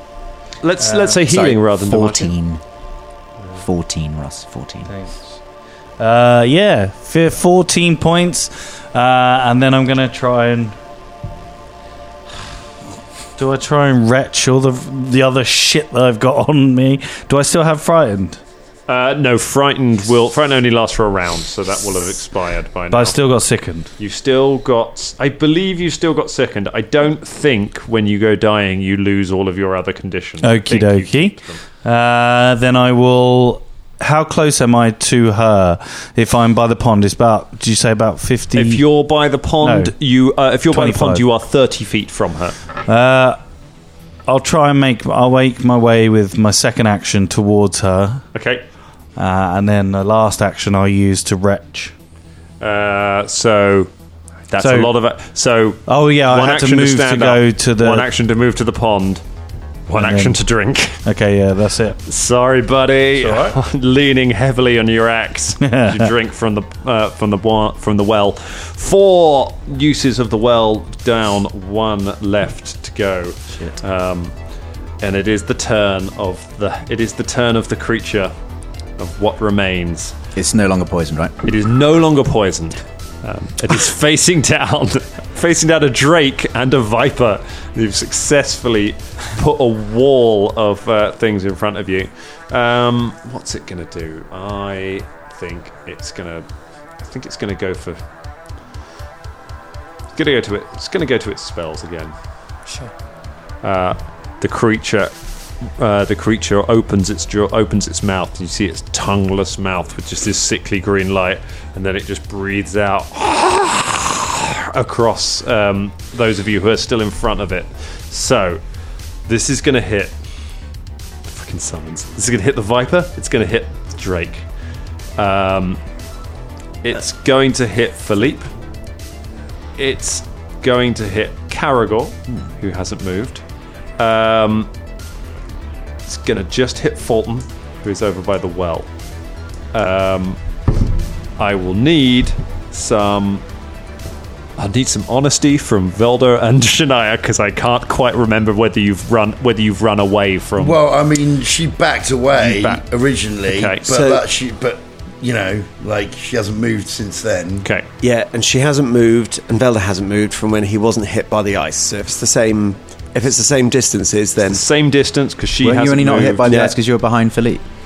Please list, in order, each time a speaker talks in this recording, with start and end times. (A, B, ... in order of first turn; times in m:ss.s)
0:00.6-0:02.3 A
0:00.8-0:01.2 B
0:01.2-0:02.6 C
0:03.6-0:04.9 C
0:04.8-0:05.4 B
0:06.0-0:10.8 B
0:13.4-0:18.4 B
0:18.9-0:23.2 A
0:22.9-0:23.9 B
0:24.0-0:31.6 A
0:30.4-0:38.8 B
0:38.5-0:42.6 A
0:39.6-0:39.9 B
0:40.7-0:41.2 B
0:42.8-0:43.4 B
0:44.3-0:48.2 B
0:48.3-0:48.6 A
0:49.2-0:51.9 B
0:52.6-0:53.9 A
0:54.5-0:59.2 A
0:54.6-0:54.9 B
0:55.9-0:58.1 B
0:59.9-1:01.0 A
0:59.9-1:00.4 B
1:01.0-1:02.0 B
1:02.0-1:14.3 A
1:05.6-1:06.1 B
1:15.0-1:18.3 A
1:19.0-1:20.1 A
1:20.4-1:21.3 C
1:21.4-1:36.4 A
1:37.0-1:38.0 A
1:40.1-1:42.1 A
1:43.6-1:45.1 A
1:45.8-1:58.6 A
1:59.3-2:00.1 A
2:01.3-2:04.4 A
2:05.2-2:05.8 A
2:06.8-2:08.5 A
2:09.8-2:13.4 A
2:14.0-2:14.7 A
2:16.0-2:18.9 A
2:19.7-2:20.4 A
2:21.4-2:23.4 A
2:24.6-2:30.8 A
2:30.6-2:37.7 D
2:32.4-2:32.8 A
2:33.5-2:33.9 A
2:33.9-2:34.2 E
2:38.0-2:44.6 E
2:44.4-2:46.6 A
2:45.6-2:47.6 C
2:46.2-2:46.7 E